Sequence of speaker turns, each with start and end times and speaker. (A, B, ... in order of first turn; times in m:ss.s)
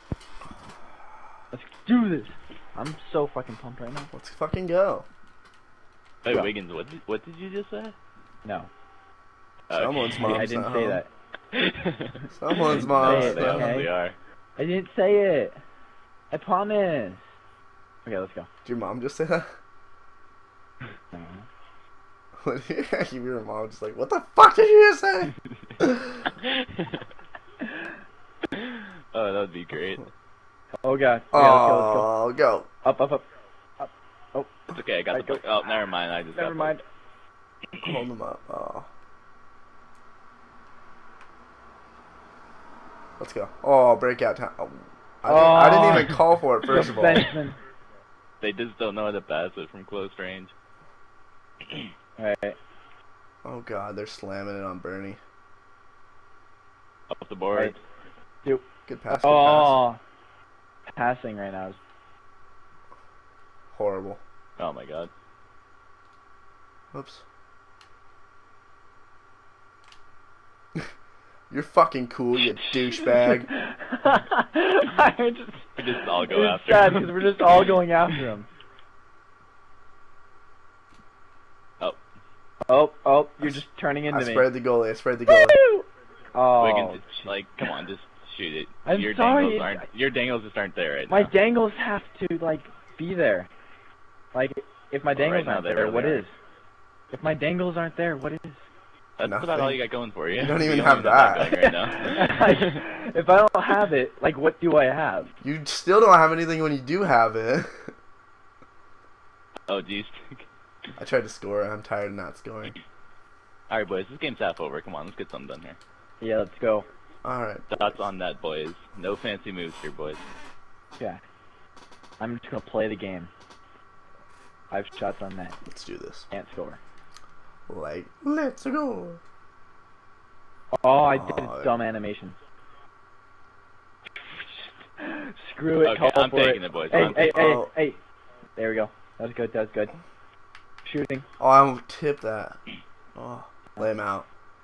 0:01.5-0:04.1 A
0:04.1-0:05.1 B
0:06.2-0:08.0 C
0:08.4-0:08.7 A
0:09.7-0:10.2 C
0:09.7-0:11.0 B
0:10.2-0:11.1 A
0:11.5-0:14.1 C
0:12.3-0:13.8 B
0:12.9-0:13.9 A
0:14.6-0:15.6 A
0:16.3-0:17.2 A
0:18.0-0:18.5 A
0:18.6-0:19.5 B
0:21.1-0:21.4 A
0:22.4-0:26.3 B
0:26.4-0:27.0 C
0:28.5-0:30.1 C
0:30.8-0:32.1 A
0:31.3-0:32.7 B
0:32.8-0:33.2 A
0:33.8-0:35.7 A
0:34.7-0:36.8 C
0:36.4-0:36.8 A
0:37.8-0:38.9 B
0:43.2-0:47.3 B
0:45.2-0:47.6 A
0:48.4-0:50.5 C
0:52.2-0:52.6 A
0:53.4-0:55.2 B
0:57.1-0:57.8 C
0:58.4-1:00.0 A
0:58.9-0:59.8 B
1:01.0-1:01.8 A
1:03.7-1:04.2 B
1:04.6-1:05.1 C
1:06.9-1:07.2 B
1:11.5-1:13.5 B
1:12.6-1:18.5 A
1:15.8-1:17.6 C
1:22.7-1:24.5 A
1:24.1-1:25.6 B
1:25.3-1:27.1 A
1:26.6-1:31.3 C
1:28.9-1:29.9 A
1:31.1-1:33.5 A
1:34.3-1:36.3 A
1:35.1-1:36.2 C
1:37.1-1:38.6 A
1:39.2-1:42.8 C
1:39.2-1:39.8 B
1:40.4-1:41.6 B
1:41.5-1:45.3 A
1:45.4-1:47.9 B
1:49.7-1:50.5 C
1:51.0-1:52.8 B
1:53.7-1:55.8 C
1:56.2-1:56.9 A
1:57.2-1:58.1 B
1:57.7-2:00.2 C
2:02.2-2:03.3 A
2:04.7-2:05.6 A
2:05.7-2:06.3 B
2:06.3-2:06.8 A
2:07.7-2:09.2 B
2:10.7-2:12.4 A
2:11.1-2:11.7 B
2:14.3-2:18.0 A
2:15.8-2:17.4 C
2:16.9-2:17.7 B
2:18.6-2:19.9 A
2:20.8-2:21.2 A
2:21.4-2:22.6 B
2:23.1-2:24.3 B